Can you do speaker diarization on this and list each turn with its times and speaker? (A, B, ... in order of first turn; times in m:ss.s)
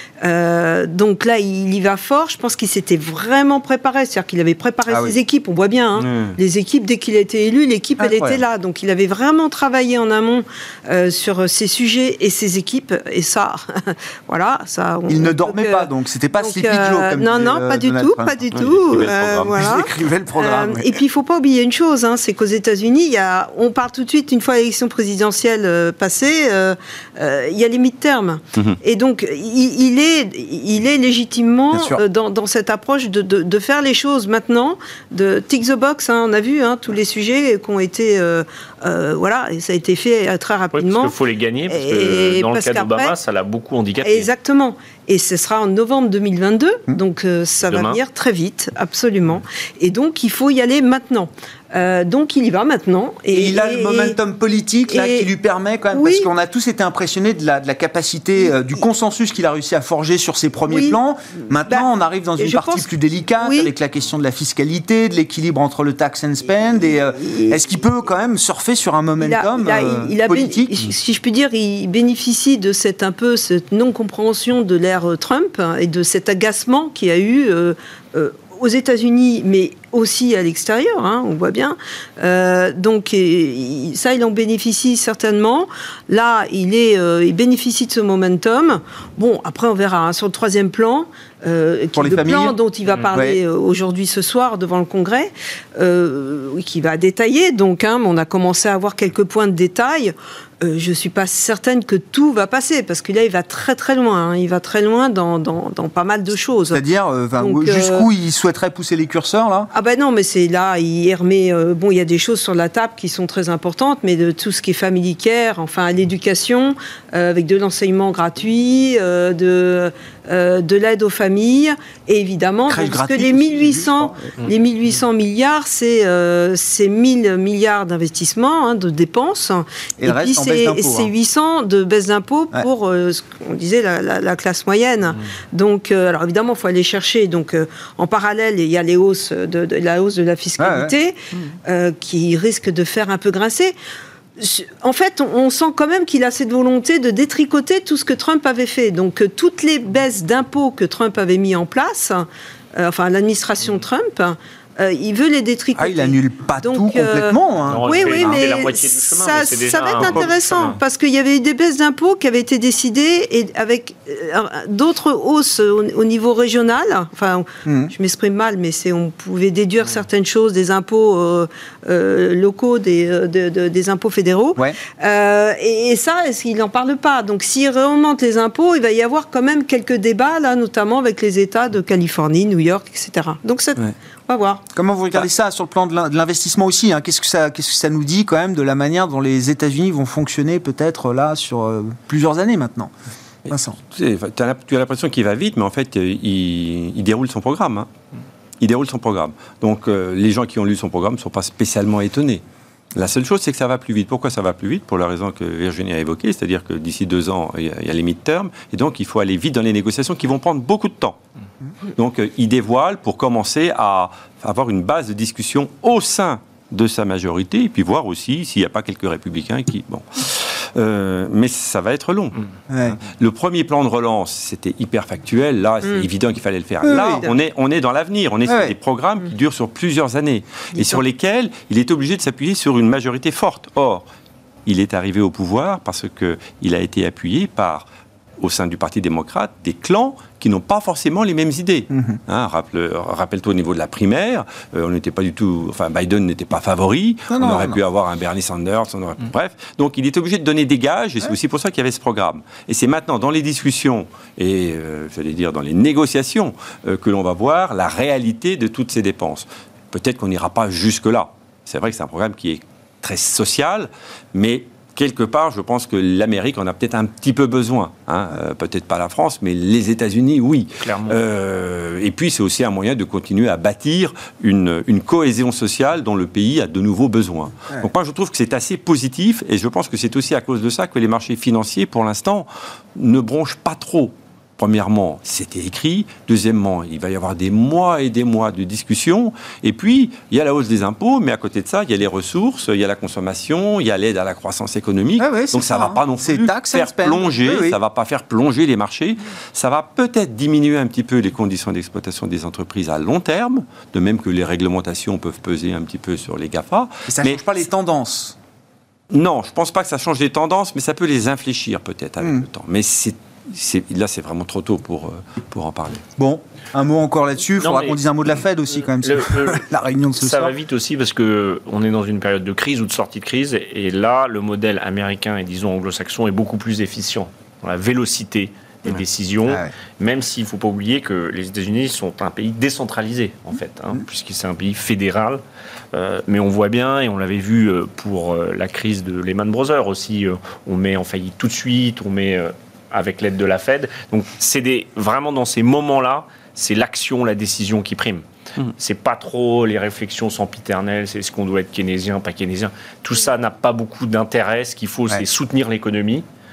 0:00.2-0:41.1 A
0:04.9-0:05.2 B
0:06.0-0:06.4 C
0:08.0-0:08.4 B
0:15.1-0:21.0 B
0:18.5-0:19.8 C
0:31.7-0:32.0 B
0:40.7-0:44.3 D
0:41.7-0:43.1 A
0:44.0-0:54.2 A
0:47.6-0:48.0 D
0:53.3-1:10.7 B
0:54.9-0:55.3 A
0:55.9-0:56.3 A
1:00.7-1:01.0 A
1:01.7-1:02.9 A
1:03.4-1:03.7 A
1:07.2-1:07.6 A
1:09.2-1:46.8 A
1:31.9-1:32.6 B
1:33.1-1:33.4 B
1:46.7-1:49.7 B
1:47.4-1:48.1 A
1:49.7-2:23.7 A
2:02.7-2:04.3 B
2:10.0-2:11.1 B
2:20.6-2:20.9 B
2:24.4-3:04.6 A
2:35.8-2:38.4 B
2:37.7-2:40.8 D
2:47.6-2:47.9 B
3:04.7-3:12.9 B
3:13.5-3:13.8 B
3:13.8-3:17.9 C
3:18.6-3:22.4 C
3:22.9-3:31.2 C
3:31.9-3:54.1 C
3:42.7-3:43.0 B
3:46.8-3:47.3 B
3:48.4-3:48.7 B
3:54.6-3:57.9 C
3:58.4-5:07.4 C
4:01.9-4:02.2 B
4:07.3-4:07.8 B
4:30.8-4:31.2 D
4:55.2-4:57.8 B
5:07.1-5:08.4 B
5:09.1-5:16.0 C
5:12.2-5:12.4 B
5:16.2-5:20.5 B
5:17.6-5:18.0 D
5:18.8-5:19.6 D
5:20.2-5:35.4 D
5:29.4-5:29.7 B
5:35.9-5:48.2 D
5:48.8-5:56.2 D